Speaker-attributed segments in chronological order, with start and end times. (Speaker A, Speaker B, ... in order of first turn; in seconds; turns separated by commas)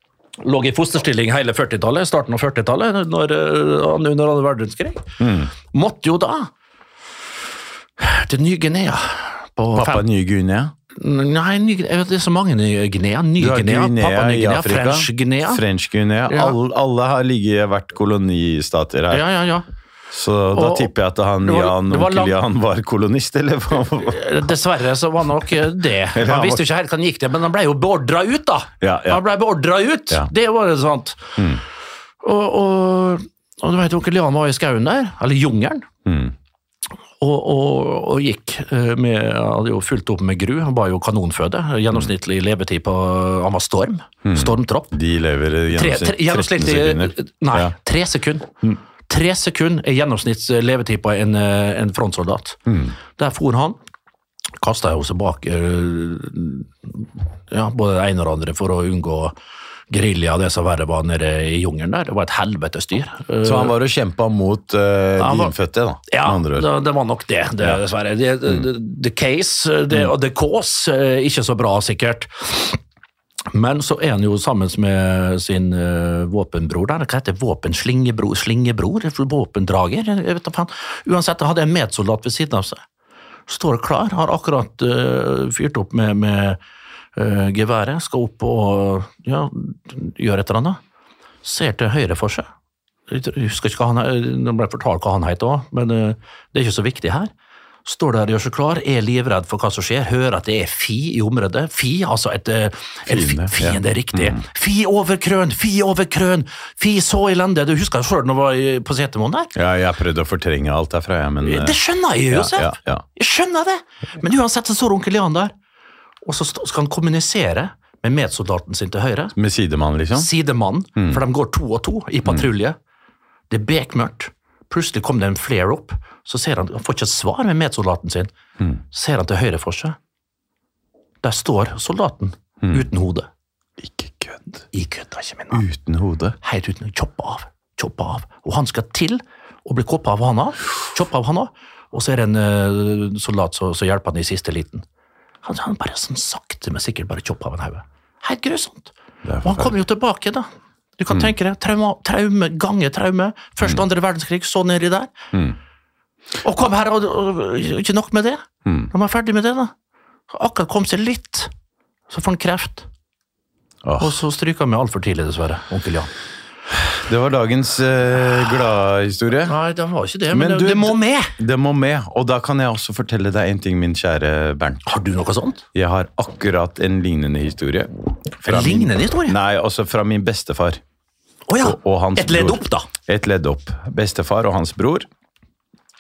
Speaker A: 0.4-5.1, Speaker B: 5.2-5.5, Speaker A: 5.7-6.5, Speaker A: 8.0-10.1, Speaker B: 9.7-10.7, Speaker A: 11.0-15.6, Speaker B: 13.4-19.3, Speaker A: 16.3-16.6, Speaker A: 19.1-19.7, Speaker B: 20.1-24.2, Speaker A: 20.5-20.9, Speaker A: 21.4-22.4, Speaker A: 24.1-31.4, Speaker B: 26.1-26.6, Speaker B: 28.8-29.2, Speaker A: 32.2-35.9, Speaker B: 36.0-36.3, Speaker A: 37.2-45.0, Speaker B: 44.2-47.7, Speaker A: 45.7-48.5, Speaker A: 49.1-52.6, Speaker B: 52.7-53.0, Speaker A: 53.2-53.8, Speaker A: 54.6-59.4, Speaker A: 59.9-63.7, Speaker B: 63.4-66.7, Speaker A: 65.2-65.5, Speaker A: 66.1-72.8, Speaker A: 73.5-82.8, Speaker A: 83.5-86.6, Speaker A: 87.2-90.8, Speaker A: 91.4-92.5, Speaker A: 93.1-97.3, Speaker A: 97.8-109.5, Speaker B: 103.1-104.4, Speaker B: 109.5-111.8, Speaker A: 111.4-115.5, Speaker B: 112.3-113.0, Speaker A: 116.2-119.3, Speaker B: 119.4-120.3, Speaker A: 120.2-122.8, Speaker A: 123.5-128.3, Speaker A: 128.9-130.0, Speaker A: 131.2-133.3, Speaker B: 132.6-132.9, Speaker B: 133.8-134.7, Speaker A: 134.7-135.6, Speaker B: 135.5-136.4, Speaker A: 136.4-144.8, Speaker A: 145.4-148.9, Speaker B: 149.2-149.8, Speaker A: 149.4-150.5, Speaker A: 151.0-155.1, Speaker A: 156.4-159.7, Speaker B: 158.7-158.9, Speaker A: 160.3-161.5, Speaker A: 162.1-162.9, Speaker B: 163.8-164.2, Speaker A: 164.0-166.1, Speaker B: 166.9-169.6, Speaker A: 169.5-171.3, Speaker B: 170.3-174.8, Speaker A: 174.8-175.6, Speaker B: 175.8-180.8, Speaker A: 178.5-179.4, Speaker A: 181.5-182.9, Speaker B: 181.6-185.1